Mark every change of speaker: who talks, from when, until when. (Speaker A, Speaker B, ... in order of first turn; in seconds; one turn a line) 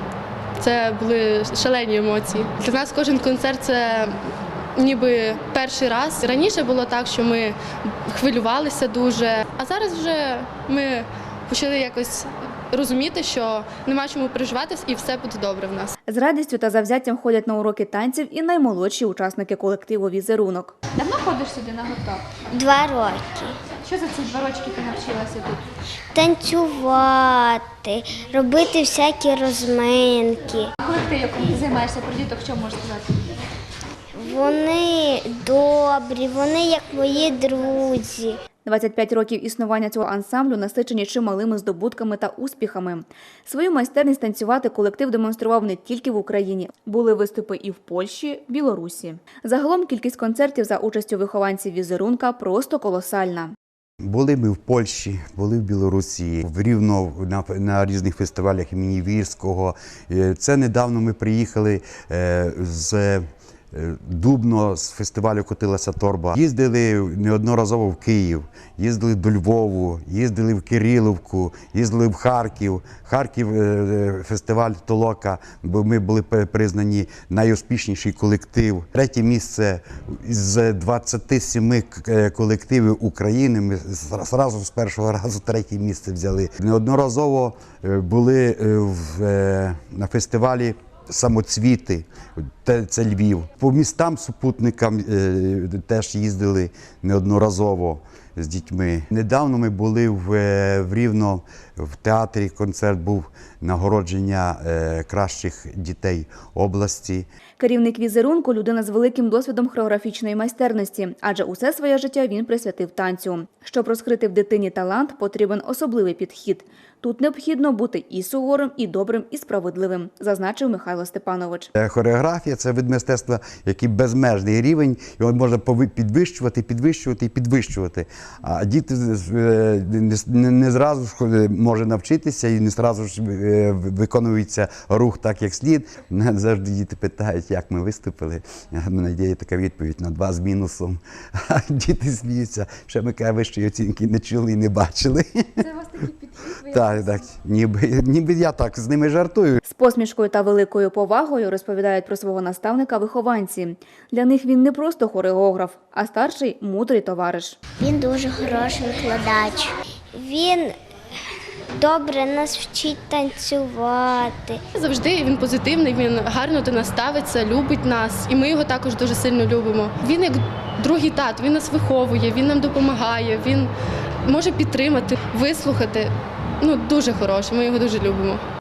Speaker A: 0.6-15.9
Speaker B: 16.1-20.8
Speaker C: 20.9-22.4
Speaker D: 22.5-23.6
Speaker C: 23.8-25.6
Speaker D: 26.1-30.7
Speaker C: 30.8-33.3
Speaker D: 34.1-38.4
Speaker B: 38.6-53.5
Speaker E: 54.0-107.3
Speaker B: 107.6-121.7
Speaker E: 121.8-145.7
Speaker C: 145.6-147.1
Speaker E: 146.6-149.6
Speaker B: 149.6-157.6
Speaker D: 157.8-160.8
Speaker D: 161.7-164.6
Speaker A: 164.7-173.7
Speaker A: 174.2-178.4